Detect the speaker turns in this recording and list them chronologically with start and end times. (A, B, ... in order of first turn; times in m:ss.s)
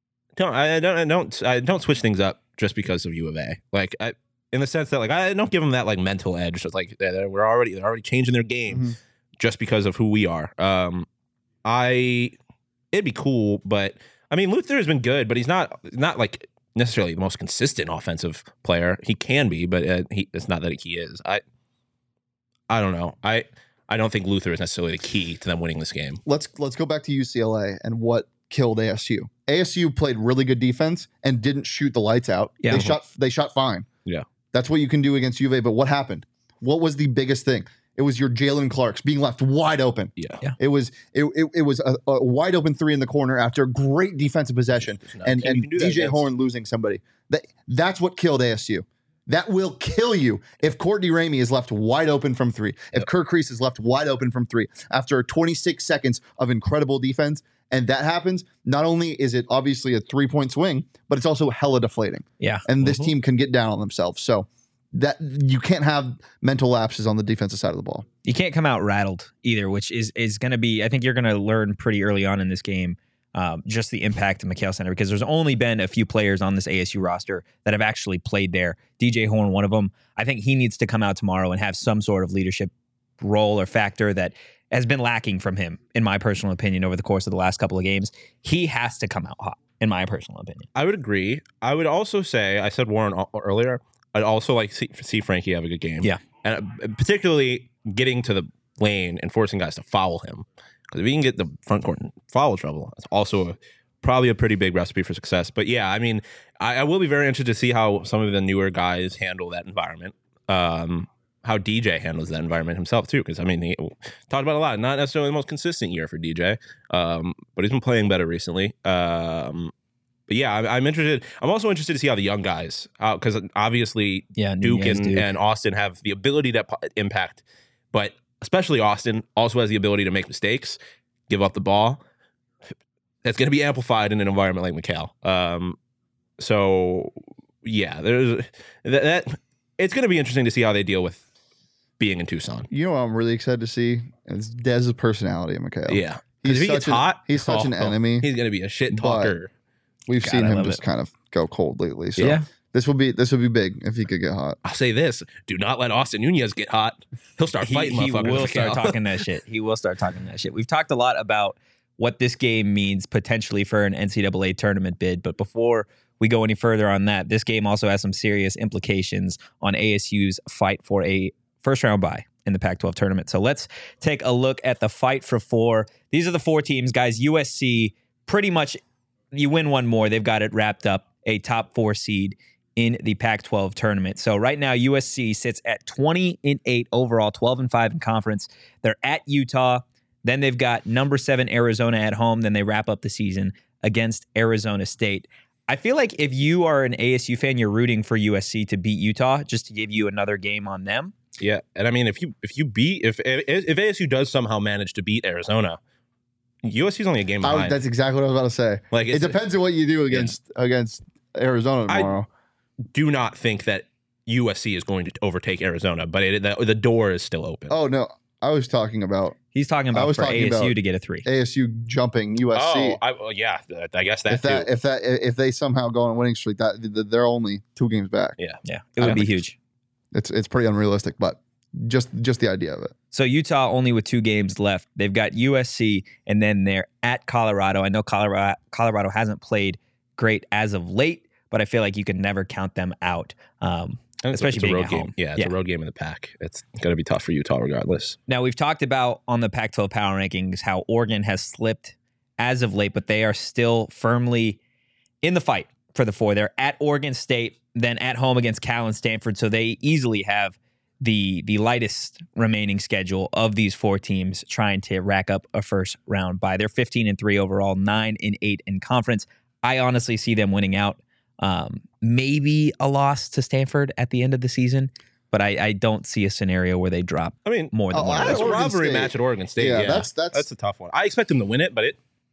0:00.4-0:11.0 A
0:11.6-0:12.3 A
0:12.9-0:21.4 A
0:22.7-0:26.2 A
0:26.2-0:33.9 B
0:32.7-0:33.0 A
0:34.5-1:08.0 B
0:44.9-0:46.2 A
1:02.8-1:03.1 A
1:08.2-1:30.7 C
1:30.7-1:59.7 A
2:00.3-2:10.8 A
2:04.4-2:05.2 C
2:11.3-2:12.0 A
2:13.2-2:15.8 A
2:16.4-2:21.2 A
2:22.0-2:22.7 A
2:22.7-2:28.3 B
2:25.9-2:29.5 A
2:28.9-2:29.4 B
2:30.1-2:34.6 B
2:30.2-2:30.8 C
2:32.2-2:32.4 C
2:34.6-2:39.0 A
2:37.6-2:58.8 C
2:59.3-3:21.1 C
3:21.4-3:25.8 A
3:26.6-3:27.8 A
3:27.4-3:32.3 B
3:28.9-3:29.4 A
3:31.9-3:32.1 A
3:32.9-3:37.7 A
3:37.7-3:39.4 B
3:39.5-3:41.2 C
3:39.9-3:43.0 B
3:42.5-3:44.7 A
3:44.3-3:48.4 B
3:48.4-3:49.4 A
3:48.6-3:49.6 C
3:50.1-3:52.9 B
3:53.1-4:05.5 C
4:04.2-4:08.2 A
4:08.3-4:14.6 C
4:15.2-4:38.6 C
4:37.4-4:42.0 A
4:37.9-4:40.4 B